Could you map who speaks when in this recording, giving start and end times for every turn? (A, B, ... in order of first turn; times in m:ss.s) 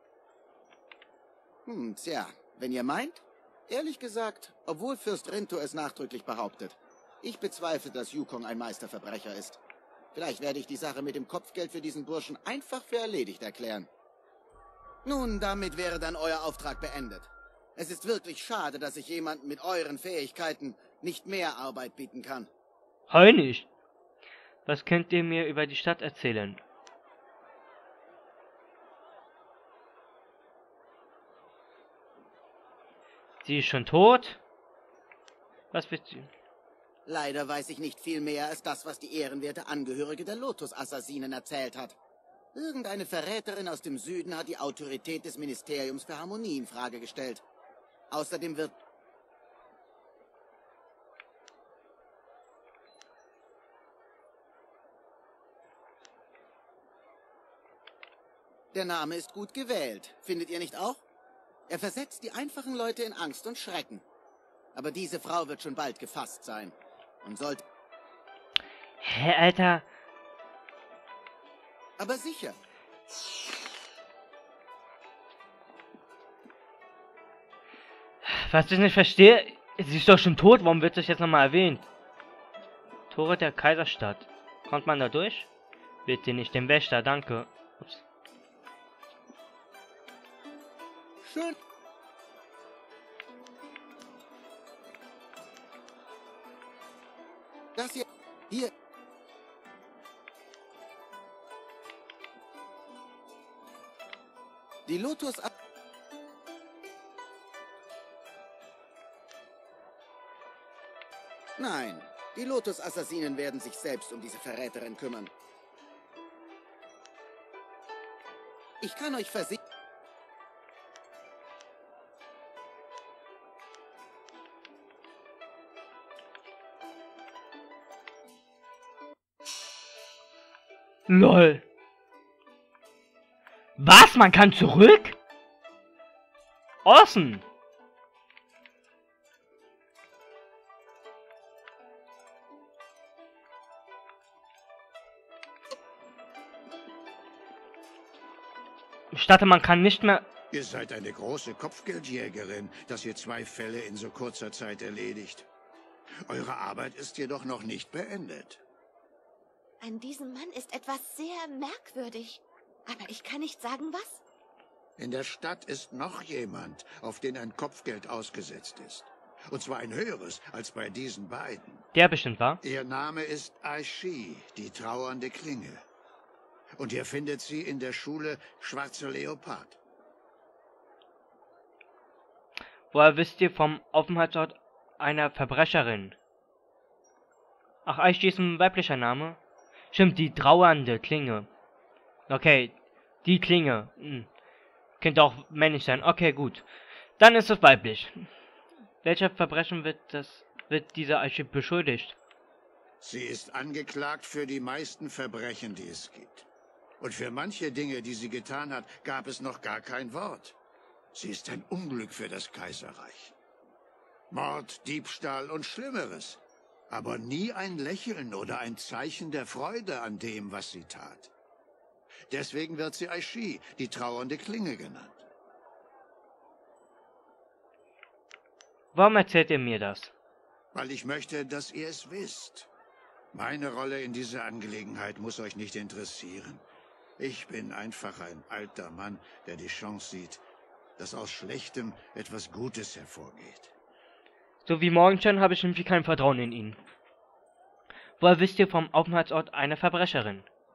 0:01.7-0:09.6 A
0:10.1-0:13.9 A
0:15.0-0:22.5 A
0:23.1-0:23.7 B
0:24.7-0:26.6 B
0:33.4-0:34.4 B
0:35.7-0:36.3 B
0:37.1-0:42.0 A
0:42.5-0:47.4 A
0:48.1-0:48.8 A
0:58.7-1:01.0 A
1:01.7-1:04.0 A
1:04.7-1:07.6 A
1:09.0-1:09.8 B
1:12.0-1:12.6 A
1:18.2-1:21.9 B
1:23.1-1:25.5 B
1:26.1-1:28.0 B
1:31.2-1:31.6 A
1:37.8-1:38.7 A
1:44.9-1:45.5 A
1:51.6-1:55.3 A
1:58.8-1:59.6 A
2:11.1-2:11.6 B
2:13.8-2:15.2 B
2:16.8-2:17.4 B
2:29.1-2:30.2 B
2:30.5-2:35.5 C
2:36.3-2:38.6 C
2:39.8-2:44.2 D
2:45.0-2:51.9 C
2:51.9-2:52.6 B
2:52.6-2:55.8 C
2:56.8-2:59.8 C
3:02.9-3:06.2 B
3:07.9-3:09.4 B
3:09.9-3:11.5 B
3:12.3-3:14.3 B
3:15.0-3:16.7 B
3:17.2-3:18.2 B
3:19.0-3:22.2 B
3:23.0-3:26.5 C
3:27.0-3:30.6 C
3:31.1-3:33.3 C
3:34.3-3:41.3 C
3:42.3-3:45.2 C
3:49.0-3:50.1 B
3:50.7-3:52.7 C
3:53.3-3:56.6 C
3:57.2-4:00.4 C
4:01.0-4:03.7 C
4:04.6-4:06.8 B
4:08.2-4:10.5 B